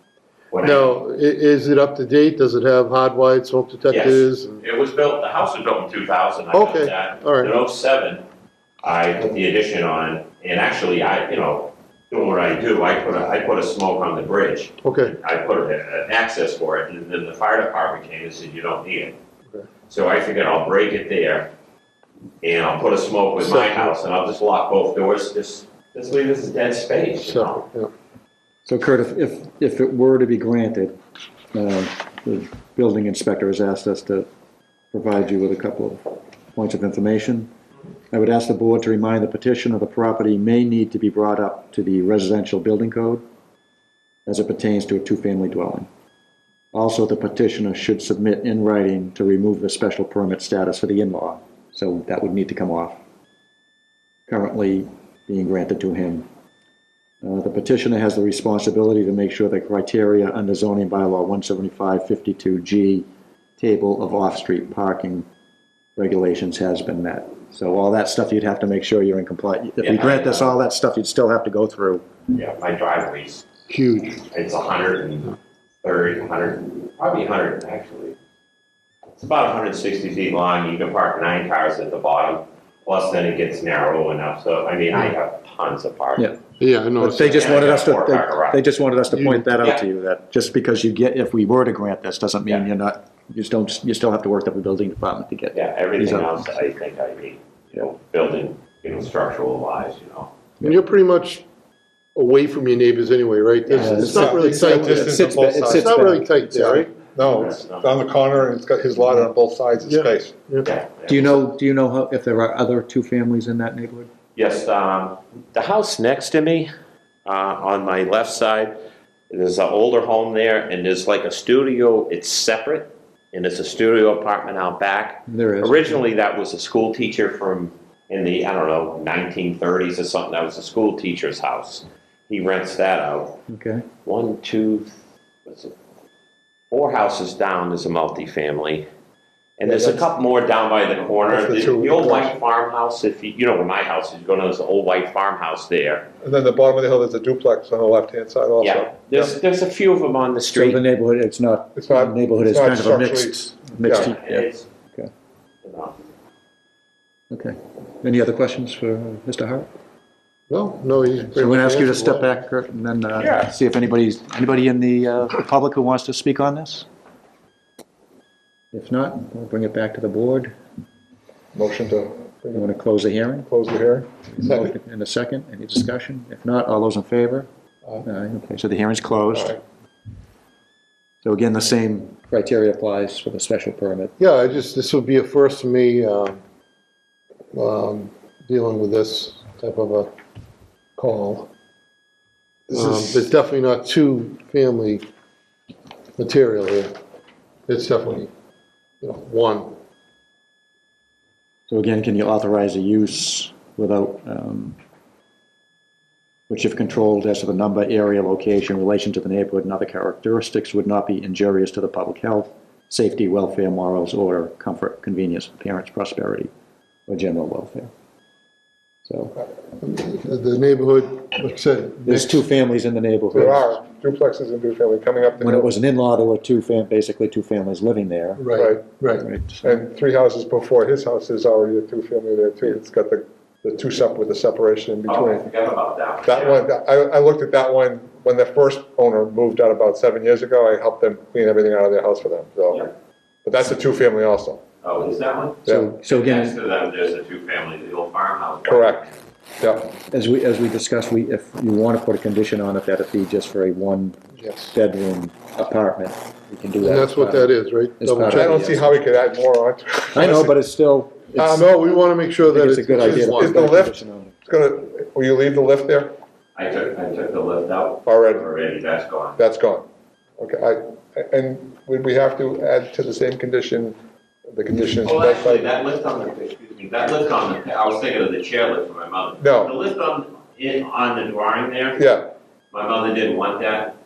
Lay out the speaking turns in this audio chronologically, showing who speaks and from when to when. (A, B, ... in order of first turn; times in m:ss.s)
0:00.5-0:01.0 A
0:00.6-0:04.6 B
0:03.9-0:08.2 A
0:06.5-0:07.5 B
0:08.8-0:19.2 A
0:14.8-0:15.2 B
0:19.9-0:21.5 A
0:22.4-0:27.7 A
0:23.4-0:23.9 B
0:27.3-0:27.9 B
0:28.7-0:31.0 C
0:31.5-0:34.3 C
0:34.9-0:37.5 C
0:38.1-0:43.2 C
0:44.3-0:45.9 C
0:46.7-0:53.0 C
0:54.3-0:56.3 C
0:57.2-1:03.1 C
1:03.6-1:05.3 C
1:06.0-1:12.0 C
1:09.8-1:10.5 A
1:12.3-1:13.5 A
1:13.7-1:14.2 B
1:14.2-1:18.2 A
1:19.2-1:26.2 A
1:26.6-1:27.4 B
1:27.0-1:36.4 C
1:27.4-1:28.6 A
1:29.1-1:29.4 B
1:35.6-1:40.3 A
1:40.6-1:41.4 B
1:42.2-1:47.0 B
1:43.7-1:46.9 C
1:43.7-1:46.1 D
1:47.0-1:50.5 D
1:47.3-1:47.9 A
1:49.8-1:50.7 B
1:50.7-1:51.3 A
1:51.1-1:54.1 C
1:54.4-1:56.7 A
1:57.3-1:58.8 A
1:59.3-2:13.4 A
2:05.3-2:06.1 C
2:13.5-2:13.8 C
2:14.1-2:14.9 A
2:15.5-2:15.7 A
2:16.7-2:18.9 A
2:19.6-2:26.1 A
2:19.6-2:20.1 D
2:21.3-2:22.4 D
2:26.2-2:29.4 D
2:28.6-2:30.8 A
2:30.5-2:35.1 C
2:31.8-2:34.1 D
2:34.1-2:34.7 A
2:35.6-2:36.0 A
2:37.3-2:39.7 C
2:40.5-2:42.3 B
2:41.3-2:46.9 C
2:48.7-2:50.5 C
2:51.5-2:52.7 D
2:52.5-2:53.5 C
2:53.5-2:54.7 D
2:54.3-2:57.5 C
2:58.0-2:59.6 C
2:59.3-2:59.6 D
3:01.2-3:04.1 C
3:04.2-3:06.4 B
3:07.5-3:10.1 B
3:11.0-3:11.5 B
3:12.7-3:13.3 D
3:12.7-3:15.0 B
3:16.2-3:17.0 B
3:17.7-3:18.3 B
3:19.0-3:19.8 B
3:21.7-3:24.8 C
3:26.5-3:36.5 C
3:37.1-3:37.9 C
3:39.1-3:39.4 C
3:39.8-3:42.4 B
3:42.0-3:43.7 C
3:43.3-3:45.7 D
3:45.4-3:48.5 C
3:48.4-3:49.3 B
3:48.6-3:48.9 D
3:49.2-3:49.8 C
3:49.6-3:55.5 D
3:55.1-3:56.6 A
3:56.2-4:02.9 D
4:03.4-4:04.6 D
4:04.8-4:09.2 A
4:05.6-4:05.9 D
4:05.7-4:06.6 C
4:08.6-4:09.1 D
4:09.6-4:09.9 D
4:10.0-4:19.0 C
4:14.4-4:14.8 B
4:16.9-4:18.6 B
4:18.2-4:20.6 D
4:20.1-4:21.7 C
4:21.4-4:21.7 D
4:21.5-4:23.7 B
4:22.5-4:24.4 C
4:23.0-4:26.1 D
4:26.6-4:29.4 A
4:28.0-4:28.5 D
4:29.4-4:29.9 D
4:30.4-4:34.0 D
4:34.5-4:35.7 D
4:35.0-4:42.0 A
4:39.4-4:39.8 D
4:42.0-4:42.3 D
4:42.7-4:43.9 A